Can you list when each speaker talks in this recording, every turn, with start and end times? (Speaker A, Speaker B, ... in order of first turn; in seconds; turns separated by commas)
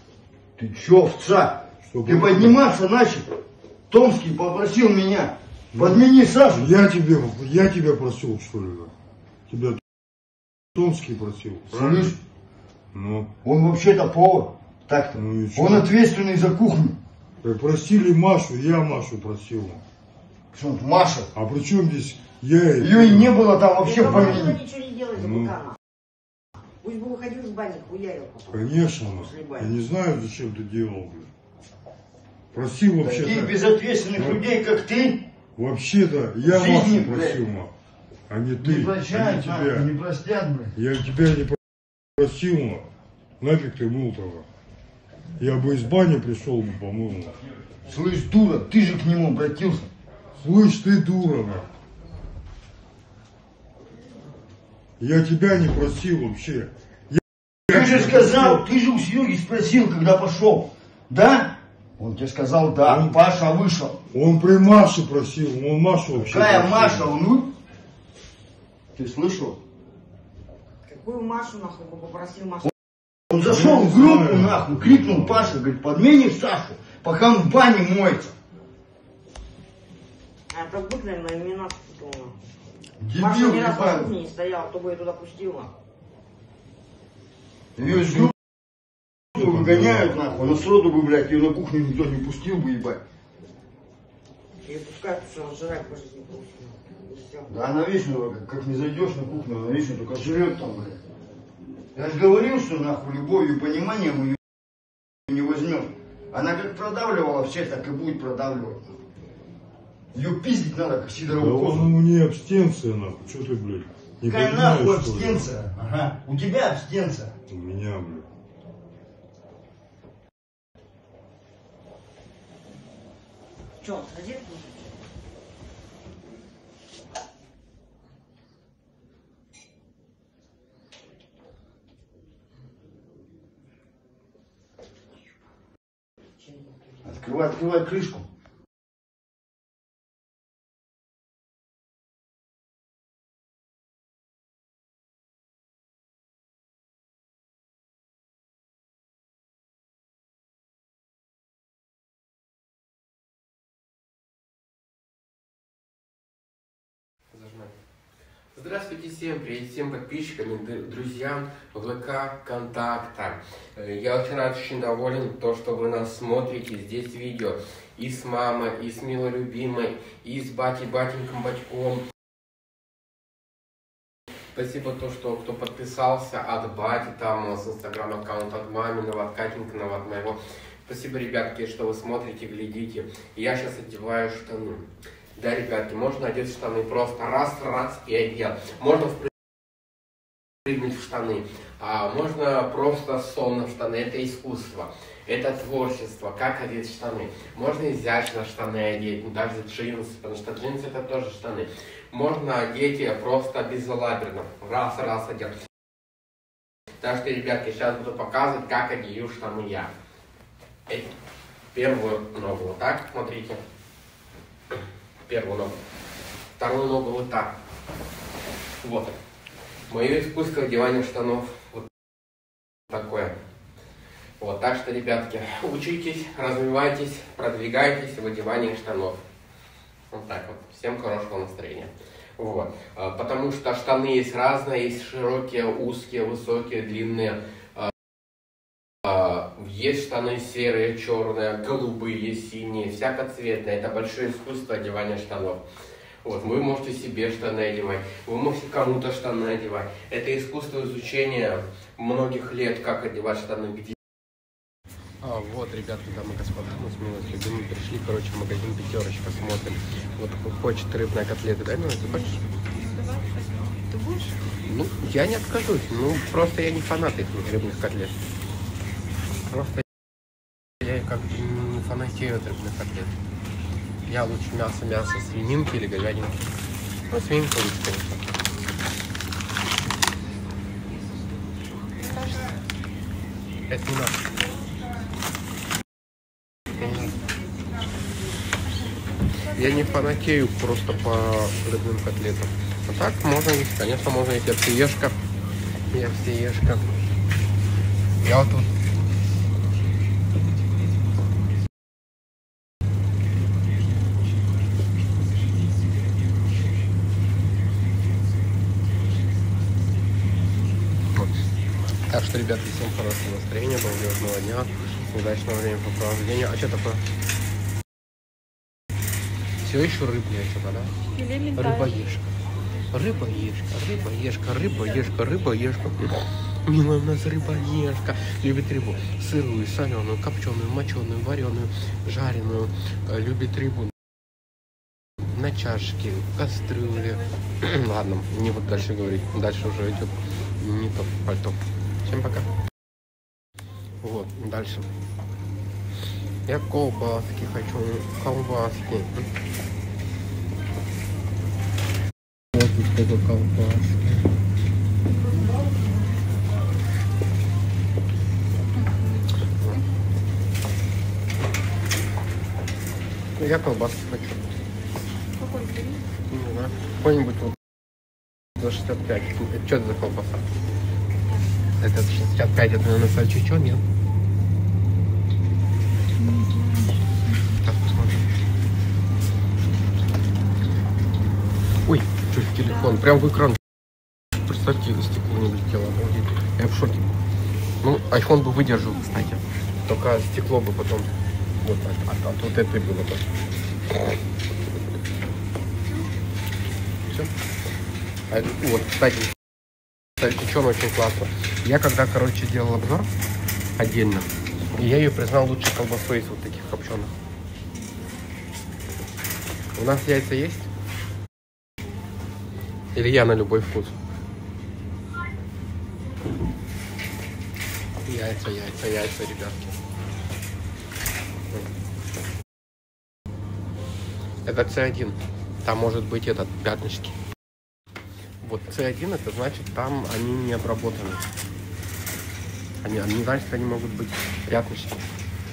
Speaker A: 0.6-3.2, Speaker B: 1.9-2.5, Speaker A: 3.9-6.7, Speaker B: 6.5-8.9, Speaker B: 9.5-9.8, Speaker B: 10.8-12.1, Speaker A: 11.7-12.2, Speaker B: 12.9-13.3, Speaker A: 13.4-17.0, Speaker B: 15.2-15.9, Speaker B: 17.4-19.8, Speaker A: 20.5-21.3, Speaker B: 21.4-23.4, Speaker A: 22.8-24.6, Speaker C: 23.8-25.8, Speaker B: 24.0-24.4, Speaker B: 25.2-25.5, Speaker C: 26.8-29.8, Speaker B: 28.5-31.3, Speaker B: 32.5-33.5, Speaker A: 33.0-35.2, Speaker B: 34.1-34.4, Speaker B: 35.6-37.7, Speaker A: 36.4-37.4, Speaker B: 38.3-39.9, Speaker A: 38.6-40.8, Speaker B: 40.8-41.6, Speaker B: 42.2-42.9, Speaker B: 43.4-44.5, Speaker B: 45.4-47.4, Speaker A: 47.9-49.9, Speaker B: 50.4-51.7, Speaker B: 55.0-58.6, Speaker A: 57.7-64.0, Speaker B: 62.9-63.1, Speaker B: 64.1-67.1, Speaker A: 66.2-67.5, Speaker A: 69.0-69.6, Speaker C: 70.9-72.7, Speaker A: 73.3-78.3, Speaker B: 73.4-75.5, Speaker C: 80.5-82.4, Speaker A: 83.0-84.1, Speaker C: 83.2-85.7, Speaker A: 87.8-88.3, Speaker B: 87.8-88.2, Speaker A: 89.3-93.0, Speaker C: 94.6-97.5, Speaker A: 97.5-101.0, Speaker A: 102.0-104.4, Speaker A: 105.3-108.9, Speaker A: 110.1-111.9, Speaker B: 111.3-115.5, Speaker A: 114.2-117.3, Speaker B: 117.5-118.3, Speaker C: 123.8-124.9, Speaker A: 137.1-138.3, Speaker D: 157.3-157.7, Speaker D: 158.5-172.0, Speaker D: 174.5-189.3, Speaker D: 190.7-205.6, Speaker D: 207.0-209.9, Speaker D: 211.7-213.6, Speaker D: 215.2-215.8, Speaker D: 216.6-217.5, Speaker D: 218.8-219.2, Speaker D: 219.9-221.9, Speaker D: 222.9-223.3, Speaker D: 224.4-229.2, Speaker D: 230.1-237.9, Speaker D: 239.0-245.6, Speaker D: 246.2-254.0, Speaker D: 255.2-262.4, Speaker E: 262.9-264.3, Speaker D: 264.6-268.2, Speaker D: 269.5-269.8, Speaker D: 270.8-273.1, Speaker D: 274.1-276.4, Speaker D: 277.1-278.2, Speaker D: 283.7-284.2, Speaker D: 286.7-287.2, Speaker D: 289.5-295.2, Speaker D: 295.9-296.9, Speaker D: 298.2-298.7, Speaker D: 312.1-317.0, Speaker D: 319.6-320.9, Speaker E: 321.1-321.6, Speaker D: 321.5-322.3, Speaker D: 322.9-333.9, Speaker D: 335.3-342.5, Speaker D: 344.0-344.9, Speaker D: 346.5-349.3, Speaker D: 352.5-354.3, Speaker D: 363.4-364.4, Speaker E: 365.4-366.0, Speaker D: 366.3-367.6, Speaker D: 368.6-370.4, Speaker D: 371.8-373.8, Speaker E: 376.3-376.9, Speaker D: 377.6-378.3, Speaker D: 381.9-383.6, Speaker D: 384.4-387.1, Speaker D: 387.8-391.1, Speaker D: 391.6-393.3, Speaker D: 398.3-399.3, Speaker D: 400.2-403.1, Speaker D: 403.8-407.1, Speaker D: 409.8-410.7, Speaker D: 412.9-414.0, Speaker D: 418.1-419.8, Speaker D: 424.4-427.2, Speaker D: 428.4-431.2, Speaker D: 432.8-435.0